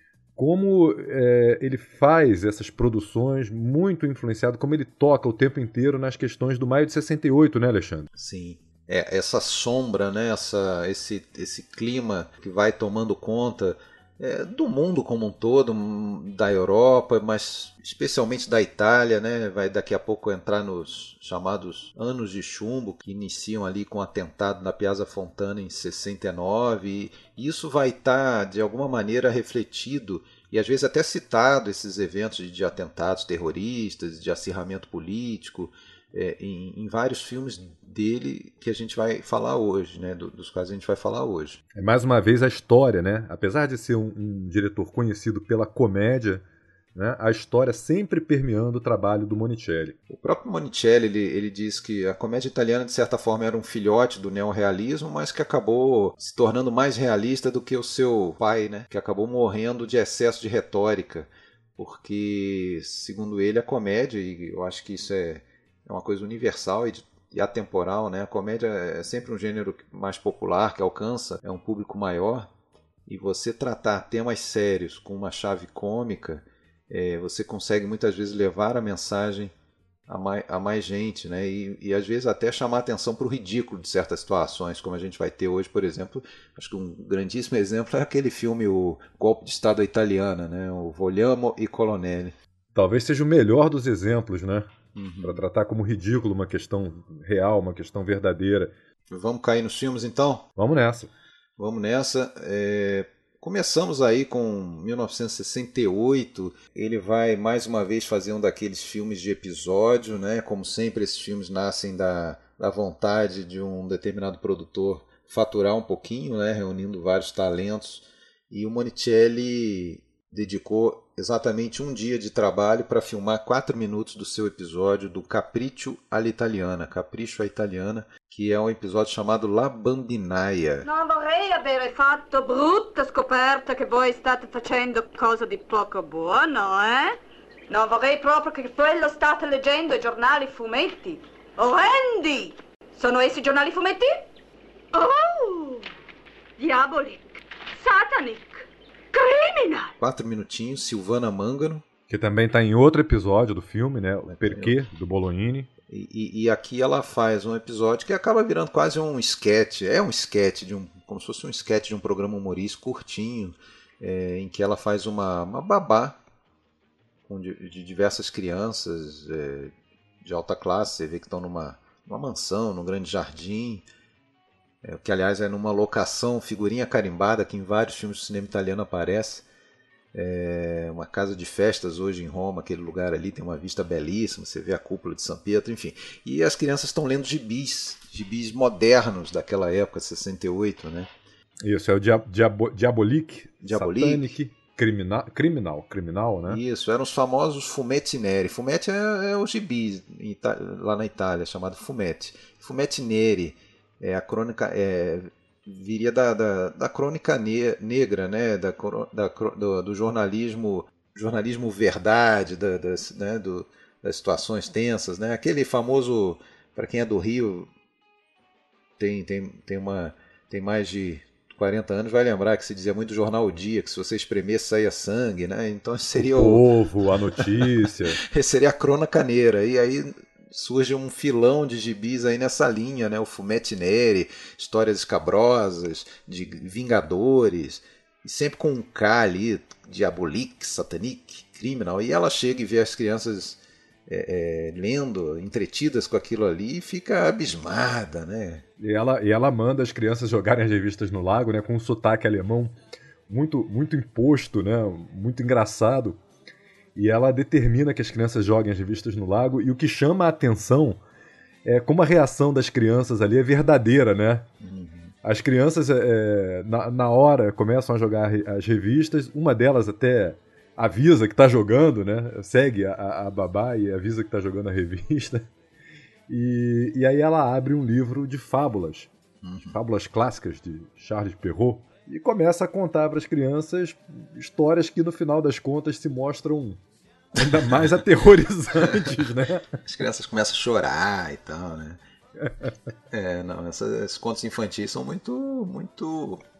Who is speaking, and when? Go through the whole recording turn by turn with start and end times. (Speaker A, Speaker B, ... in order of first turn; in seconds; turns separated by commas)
Speaker A: 0.4-8.1, Speaker B: 8.2-41.6, Speaker A: 41.7-46.4, Speaker A: 46.9-50.0, Speaker B: 50.1-72.5, Speaker B: 73.1-79.5, Speaker B: 80.1-92.3, Speaker A: 92.7-94.7, Speaker B: 94.9-95.3, Speaker A: 95.2-98.7, Speaker B: 99.1-100.5, Speaker A: 100.6-101.1, Speaker B: 101.6-130.9, Speaker C: 130.8-137.2, Speaker C: 137.7-144.2, Speaker C: 144.9-145.9, Speaker C: 146.6-149.9, Speaker B: 150.0-151.8, Speaker A: 152.1-155.7, Speaker B: 154.3-154.8, Speaker B: 155.9-166.2, Speaker B: 167.2-173.9, Speaker B: 174.8-179.5, Speaker B: 180.1-191.1, Speaker A: 191.6-196.6, Speaker B: 193.6-194.3, Speaker B: 196.4-217.7, Speaker B: 219.0-226.6, Speaker A: 226.1-228.2, Speaker B: 227.3-248.6, Speaker A: 248.8-252.7, Speaker A: 253.3-256.2, Speaker A: 256.9-261.0, Speaker A: 261.6-264.5, Speaker B: 264.6-265.1, Speaker A: 265.2-275.5, Speaker A: 276.3-279.1, Speaker B: 279.4-279.7, Speaker A: 279.7-286.8, Speaker A: 287.3-289.8, Speaker B: 287.4-288.0, Speaker B: 288.8-289.2, Speaker B: 289.8-292.0, Speaker B: 293.1-296.4